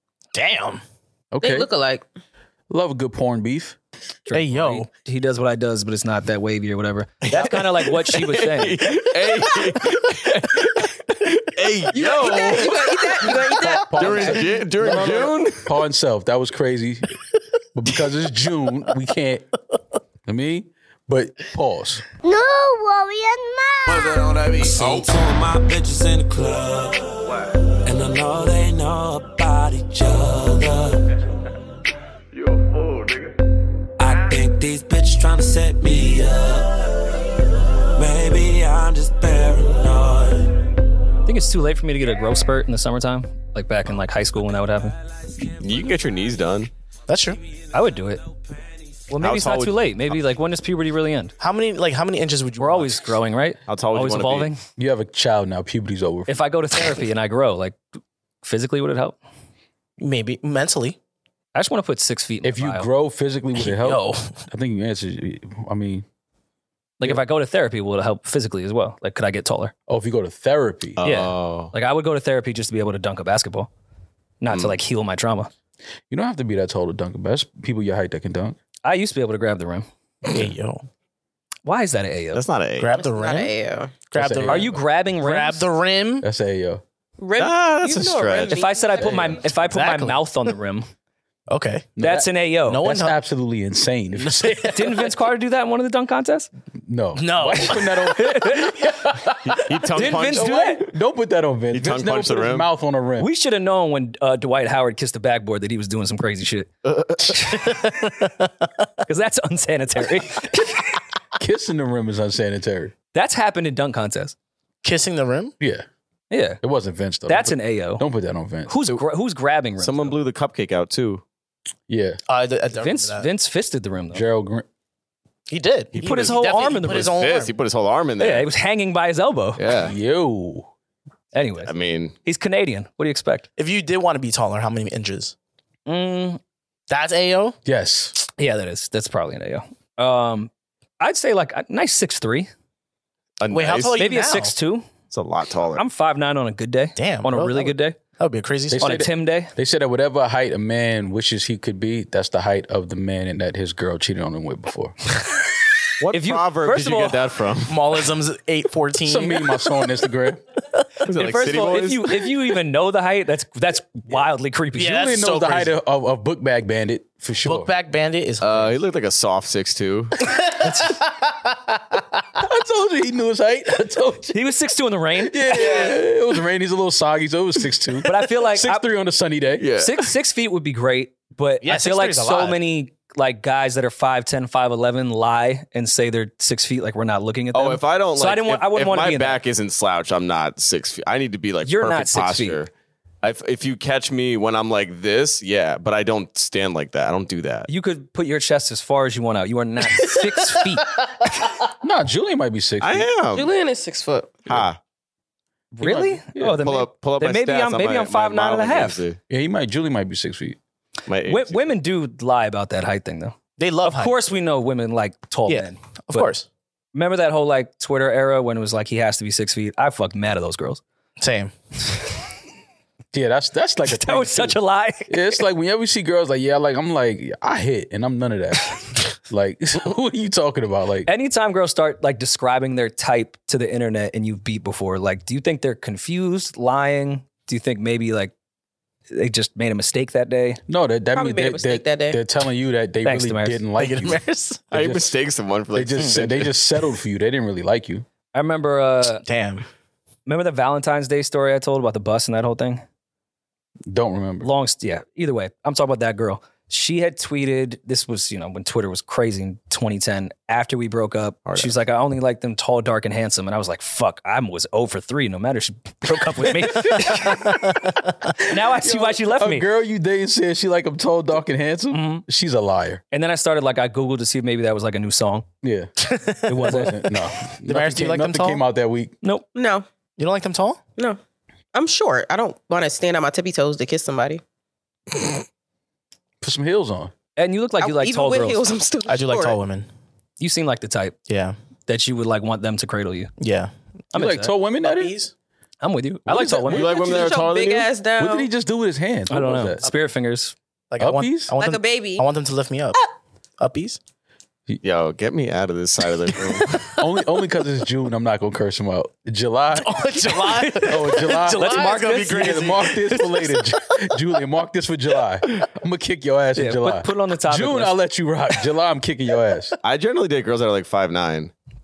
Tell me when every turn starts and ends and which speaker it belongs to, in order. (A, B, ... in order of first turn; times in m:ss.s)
0:00.3-0:00.8 A
0:01.3-0:01.7 B
0:01.4-0:02.0 C
0:02.7-0:03.8 B
0:04.3-0:08.8 D
0:04.3-0:04.9 A
0:07.3-0:15.7 E
0:11.9-0:14.4 C
0:13.6-0:17.2 B
0:17.7-0:19.5 B
0:20.3-0:22.0 B
0:22.2-0:24.4 F
0:23.9-0:31.2 G
0:32.3-0:33.3 E
0:34.0-0:37.3 G
0:38.0-0:40.7 G
0:41.3-0:45.0 D
0:45.5-0:46.7 E
0:47.1-0:47.4 A
0:47.7-0:48.2 D
0:49.1-0:51.3 D
0:49.2-0:50.2 E
0:51.4-0:53.2 A
0:52.6-0:54.6 D
0:53.7-0:54.5 E
0:54.8-0:56.4 B
0:56.3-0:57.8 D
0:58.4-0:59.2 D
1:00.0-1:01.0 A
1:01.6-1:02.9 D
1:02.4-1:06.1 B
1:03.6-1:04.4 A
1:07.0-1:09.7 D
1:09.9-1:11.0 B
1:11.0-1:11.7 E
1:11.0-1:13.7 D
1:14.4-1:15.5 D
1:16.1-1:18.6 B
1:18.8-1:19.9 D
1:20.3-1:20.8 A
1:21.6-1:22.4 D
1:22.3-1:22.9 E
1:22.8-1:23.5 A
1:22.9-1:24.0 C
1:24.1-1:26.3 A
1:24.2-1:24.8 B
1:24.5-1:25.7 D
1:26.2-1:26.8 B
1:27.2-1:29.4 C
1:27.4-1:28.6 E
1:28.5-1:30.9 D
1:29.2-1:30.5 A
1:31.5-1:31.9 A
1:32.0-1:34.8 B
1:32.0-1:32.8 D
1:32.7-1:33.2 A
1:34.2-1:35.1 A
1:34.7-1:36.5 D
1:36.9-1:43.3 B
1:37.2-1:38.9 A
1:38.2-1:38.7 D
1:39.5-1:40.9 E
1:40.0-1:40.8 D
1:41.7-1:42.7 E
1:43.2-1:46.7 D
1:46.8-1:47.6 E
1:47.3-1:48.7 A
1:47.3-1:47.9 D
1:49.0-1:50.9 D
1:51.4-1:52.9 B
1:53.1-1:54.4 D
1:54.8-1:55.5 A
1:55.6-1:55.9 B
1:56.3-1:56.6 D
1:56.6-1:58.8 B
1:57.3-1:58.0 D
1:58.7-2:00.2 D
1:59.8-2:01.2 E
2:01.9-2:02.2 B
2:02.3-2:03.3 A
2:02.8-2:04.2 D
2:04.1-2:04.7 B
2:05.5-2:07.6 A
2:06.0-2:08.5 E
2:06.0-2:07.2 D
2:08.2-2:09.6 D
2:09.6-2:10.0 E
2:09.8-2:10.7 B
2:11.3-2:11.7 D
2:11.6-2:12.2 E
2:12.2-2:13.5 D
2:13.6-2:15.4 A
2:15.9-2:16.4 D
2:16.9-2:17.6 A
2:17.6-2:18.2 B
2:18.4-2:22.5 D
2:23.4-2:24.0 E
2:23.5-2:24.5 A
2:24.0-2:24.9 D
2:25.1-2:25.8 E
2:25.8-2:28.0 D
2:27.0-2:29.0 A
2:28.7-2:35.0 B
2:28.8-2:29.5 D
2:36.0-2:38.0 E
2:36.1-2:37.2 D
2:37.7-2:39.9 A
2:39.0-2:40.4 B
2:41.0-2:42.2 E
2:41.0-2:45.1 D
2:44.8-2:45.7 A
2:44.9-2:47.7 B
2:47.4-2:48.8 A
2:48.4-2:50.2 E
2:50.3-2:52.2 A
2:50.6-2:51.0 D
2:52.4-2:54.4 B
2:54.3-2:55.5 D
2:55.2-2:59.7 B
2:55.6-2:56.0 A
2:58.1-2:58.8 D
2:59.6-3:00.1 E
2:59.8-3:09.4 D
3:01.6-3:02.6 A
3:07.5-3:12.7 E
3:11.7-3:12.6 D
3:13.2-3:17.7 E
3:17.7-3:20.9 D
3:21.8-3:23.1 B
3:22.8-3:23.5 E
3:23.3-3:24.5 C
3:24.5-3:24.8 E
3:25.7-3:29.0 D
3:25.8-3:26.6 B
3:26.6-3:29.2 E
3:29.3-3:30.6 B
3:31.1-3:31.8 E
3:31.3-3:36.3 D
3:33.6-3:34.2 A
3:35.5-3:36.5 A
3:36.9-3:40.8 D
3:41.2-3:41.5 A
3:43.1-3:51.1 B
3:43.8-3:45.4 D
3:51.1-3:58.3 D
3:59.1-4:00.6 D
4:00.7-4:05.1 B
4:01.2-4:02.2 C
4:03.0-4:03.6 D
4:03.8-4:04.7 A
4:04.7-4:06.5 E
4:05.7-4:08.0 B
4:08.3-4:09.2 D
4:09.2-4:09.6 A
4:10.3-4:12.8 D
4:13.9-4:14.5 B
4:14.4-4:29.7 D
4:21.5-4:21.8 E
4:26.6-4:33.0 B
4:31.9-4:32.2 D
4:33.1-4:35.5 D
4:35.6-4:35.9 B
4:36.0-4:37.0 A
4:36.5-4:37.0 D
4:36.6-4:39.2 B
4:37.7-4:38.6 A
4:39.6-4:39.9 C
4:40.2-4:40.8 A
4:41.7-4:44.4 C
4:46.4-4:47.1 B
4:47.4-4:48.6 D
4:47.8-4:49.6 C
4:49.1-4:49.9 A
4:50.4-4:51.2 D
4:51.3-4:51.6 A
4:51.9-4:53.3 D
4:53.4-4:53.7 A
4:54.1-4:54.5 D
4:54.1-4:55.2 B
4:54.8-4:55.3 A
4:55.8-4:56.8 D
4:56.3-4:57.2 B
4:56.7-4:57.9 E
4:56.7-4:58.5 C
4:58.2-4:59.8 B
4:59.3-5:00.6 D
5:00.9-5:03.0 A
5:01.0-5:01.5 B
5:01.6-5:02.2 C
5:03.6-5:04.0 A
5:04.8-5:06.7 E
5:06.6-5:07.0 A
5:07.0-5:10.0 B
5:09.8-5:14.0 A
5:10.4-5:12.7 D
5:10.8-5:19.8 B
5:16.6-5:18.0 D
5:19.8-5:21.5 E